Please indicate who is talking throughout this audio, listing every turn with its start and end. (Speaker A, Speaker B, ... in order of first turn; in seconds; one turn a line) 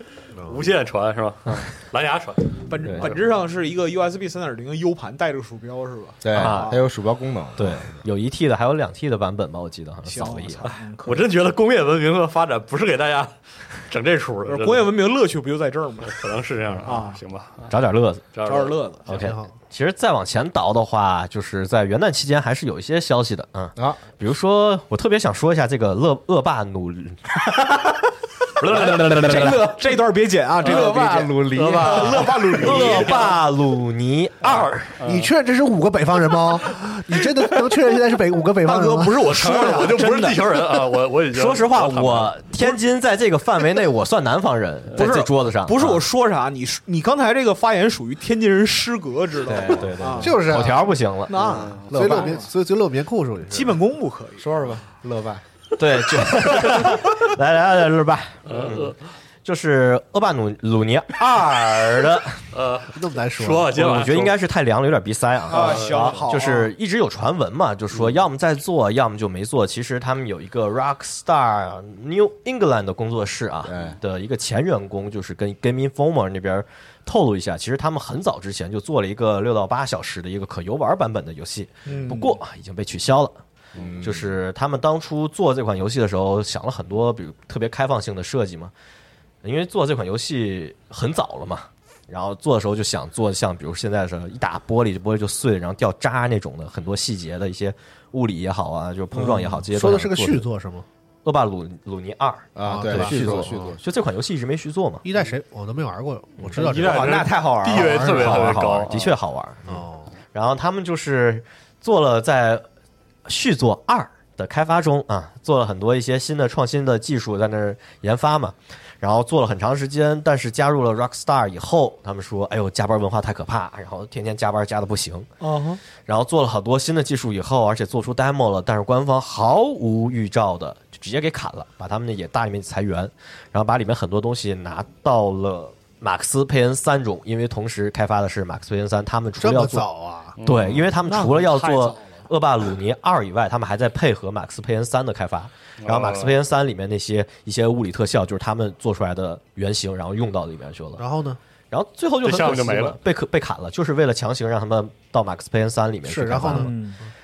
Speaker A: 0.3-0.7
Speaker B: 0.4-3.2
Speaker C: 2.6-6.9
Speaker D: 2.8-3.1
Speaker E: 6.2-8.0
Speaker D: 6.3-6.7
Speaker D: 7.5-10.7
Speaker C: 10.0-11.3
Speaker B: 10.6-14.9
Speaker C: 14.4-16.3
Speaker B: 16.1-17.7
Speaker C: 16.8-17.2
Speaker D: 17.7-18.2
Speaker B: 18.3-18.8
Speaker C: 18.4-19.1
Speaker D: 19.1-27.2
Speaker A: 19.1-19.5
Speaker E: 23.8-24.0
Speaker E: 27.5-27.9
Speaker B: 28.6-29.5
Speaker E: 28.7-29.8
Speaker C: 29.2-33.3
Speaker E: 30.6-32.6
Speaker B: 31.5-33.4
Speaker D: 32.6-34.9
Speaker B: 34.4-35.3
Speaker A: 35.0-39.3
Speaker C: 38.6-40.5
Speaker B: 39.2-42.7
Speaker D: 41.3-46.0
Speaker C: 44.9-50.5
Speaker E: 49.4-50.2
Speaker D: 49.6-51.4
Speaker A: 50.2-53.8
Speaker C: 51.3-52.5
Speaker B: 51.4-51.9
Speaker C: 53.5-54.7
Speaker E: 54.4-55.4
Speaker D: 55.8-62.4
Speaker B: 58.5-59.0
Speaker B: 62.5-64.3
Speaker A: 62.9-63.7
Speaker D: 63.7-83.4
Speaker C: 65.5-66.7
Speaker B: 65.5-66.2
Speaker E: 73.7-74.0
Speaker C: 81.8-82.4
Speaker E: 83.7-84.3
Speaker D: 84.0-88.7
Speaker D: 89.4-100.4
Speaker E: 99.2-99.5
Speaker A: 99.7-100.8
Speaker D: 101.2-105.0
Speaker E: 102.5-103.8
Speaker A: 102.6-103.8
Speaker A: 105.0-108.5
Speaker B: 106.5-109.1
Speaker E: 106.5-108.5
Speaker D: 108.1-109.7
Speaker A: 109.7-110.1
Speaker D: 110.3-112.6
Speaker D: 113.2-125.3
Speaker C: 125.4-125.8
Speaker D: 126.0-139.9
Speaker A: 139.4-140.4
Speaker B: 140.4-140.9
Speaker D: 140.4-151.0
Speaker C: 141.0-142.3
Speaker B: 145.8-146.4
Speaker A: 151.0-151.4
Speaker D: 151.7-156.7
Speaker B: 152.2-153.0
Speaker A: 156.0-157.1
Speaker C: 156.5-157.0